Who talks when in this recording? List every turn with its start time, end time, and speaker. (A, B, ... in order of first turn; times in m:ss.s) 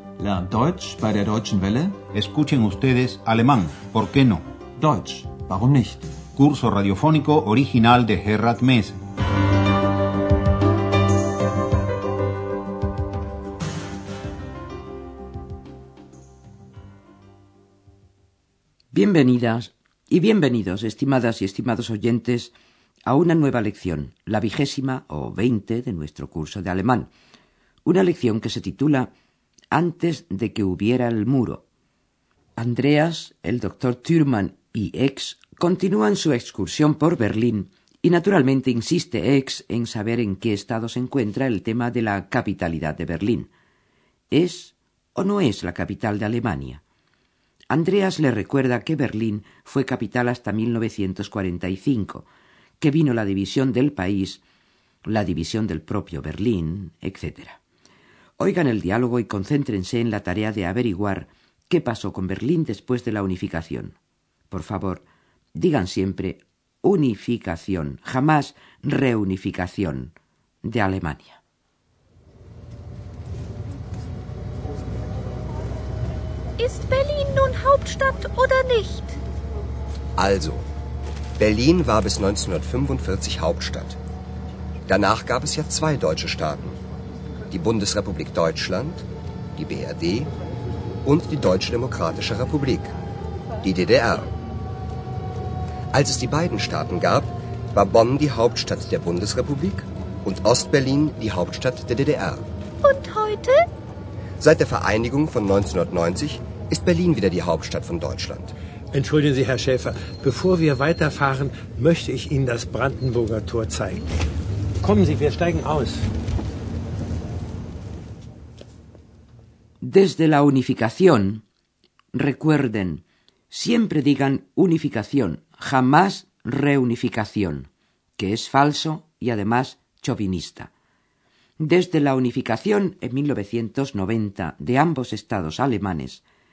0:00.2-0:02.0 A
0:02.1-0:04.4 B
0:04.8-0:06.0 A
0:06.4-0:09.0 B
0:18.9-0:22.5 C
0:23.0-0:27.1 C
0:27.8-0:29.1 C
0:29.7-0:31.6 C
0:32.6-0:43.5 C
0:44.3-0:46.8 C
0:47.7-0:52.3 C
0:52.8-0:54.4 C
0:55.0-0:57.6 C
0:58.4-1:04.0 C
1:04.5-1:11.4 C
1:16.6-1:19.2 D
1:20.2-1:20.6 E
1:21.4-1:24.0 E
1:24.9-1:26.8 E
1:27.5-1:30.3 E
1:31.0-1:32.9 E
1:33.6-1:34.3 E
1:35.9-1:42.4 E
1:42.8-1:43.6 D
1:44.4-1:48.5 E
1:48.9-1:54.1 F
1:54.8-1:56.0 F
1:59.8-2:01.4 C
2:02.1-2:10.7 C
2:11.6-2:16.2 C